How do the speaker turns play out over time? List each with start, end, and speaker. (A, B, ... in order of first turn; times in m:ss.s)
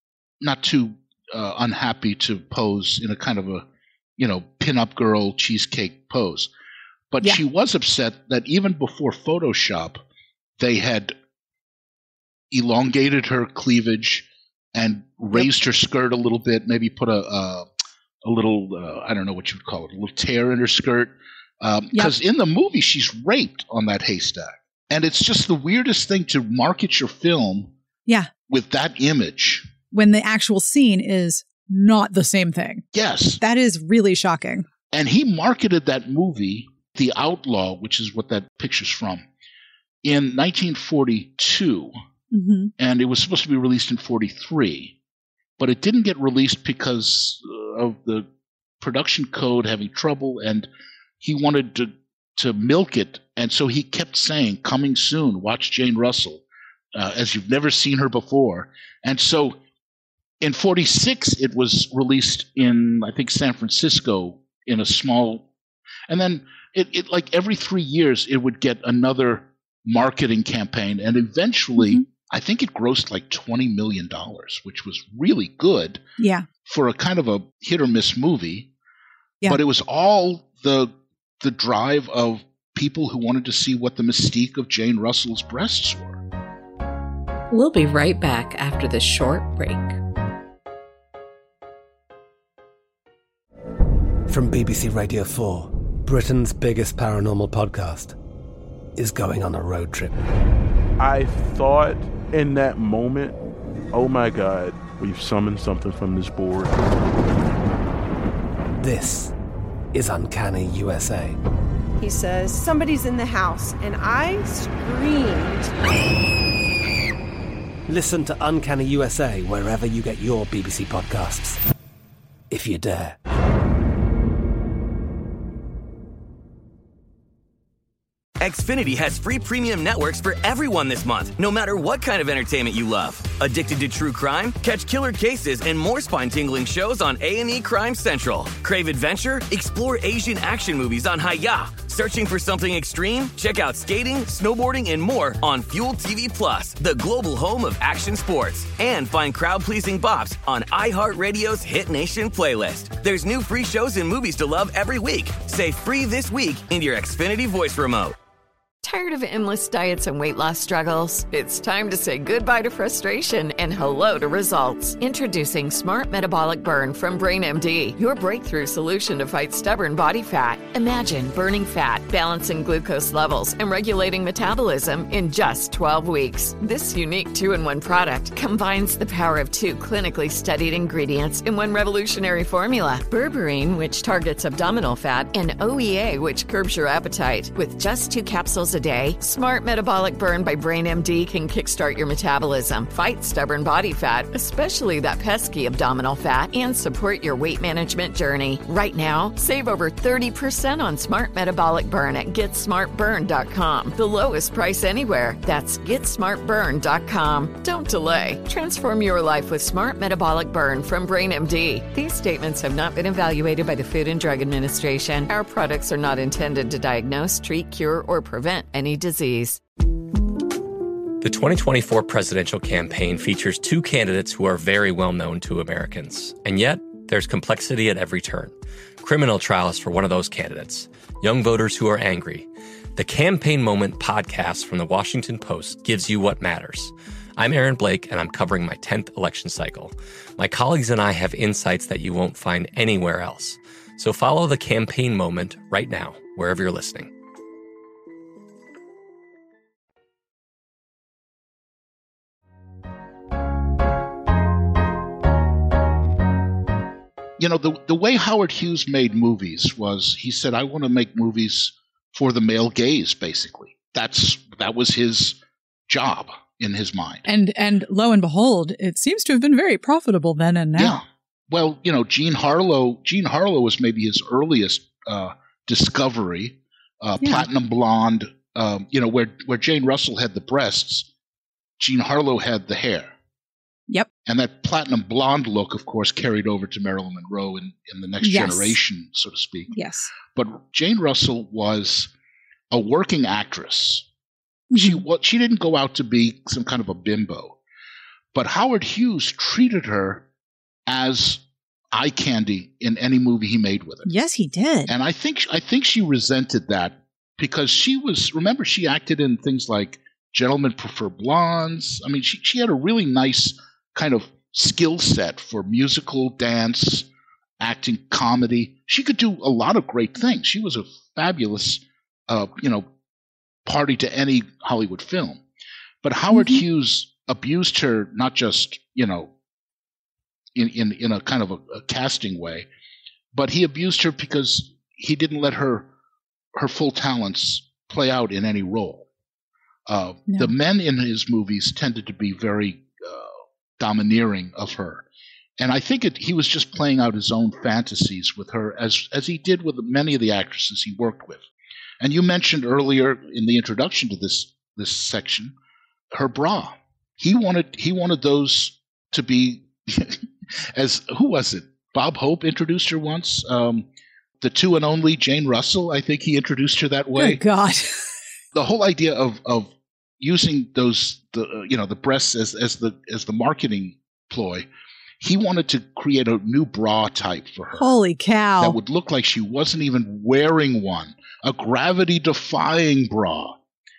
0:00.4-0:03.6 A
0:04.2-0:06.5 A
0:07.1-0:10.0 A
0:10.6-0:11.1 A
0:12.5-0:17.7 A
0:18.2-0:27.7 A
0:28.5-0:29.7 A
0:29.9-0:32.8 B
0:32.9-0:33.4 A
0:33.4-0:34.6 B
0:34.9-0:39.2 A
0:40.0-0:41.9 A
0:42.3-0:42.7 B
0:42.8-0:45.0 A
0:45.6-0:48.3 A
0:48.8-0:50.7 A
0:51.2-0:56.4 A
0:56.9-0:59.6 A
1:00.4-1:05.5 A
1:06.1-1:16.0 A
1:16.2-1:16.4 B
1:16.6-1:18.7 A
1:19.5-1:26.2 A
1:27.5-1:29.9 C
1:34.3-1:38.2 D
1:39.0-1:40.2 D
1:41.0-1:43.4 E
1:43.9-1:46.8 E
1:48.8-1:49.3 D
1:49.9-1:51.4 D
1:52.0-1:55.7 F
1:57.9-2:01.6 D
2:02.5-2:03.2 D
2:08.4-2:38.1 G
2:38.8-3:39.6 H
3:41.2-4:07.1 I
4:17.4-4:27.2 A
4:27.2-4:31.0 B
4:30.8-4:41.1 A
4:37.2-4:37.4 B
4:41.8-4:43.1 A
4:44.2-4:49.7 A
4:48.2-4:48.8 B
4:49.7-4:50.1 B
4:50.3-4:52.1 A
4:52.7-4:54.0 A
4:54.7-4:55.0 B
4:54.7-4:57.6 A
4:58.3-5:00.2 A
5:00.9-5:01.4 A
5:01.9-5:04.1 A
5:04.0-5:04.9 B
5:04.9-5:17.1 A
5:17.6-5:22.8 A
5:23.6-5:25.4 A
5:26.0-5:29.3 A
5:26.3-5:26.6 B
5:30.5-5:32.7 A
5:33.3-5:35.9 A
5:36.5-5:39.1 A
5:39.9-5:45.0 A
5:40.3-5:40.5 B
5:45.6-5:51.5 A
5:52.0-5:55.5 A
5:56.1-6:03.8 A
6:04.4-6:07.4 A
6:07.2-6:07.9 B
6:08.5-6:14.7 A
6:15.2-6:17.9 A
6:17.8-6:18.8 B
6:18.6-6:23.6 A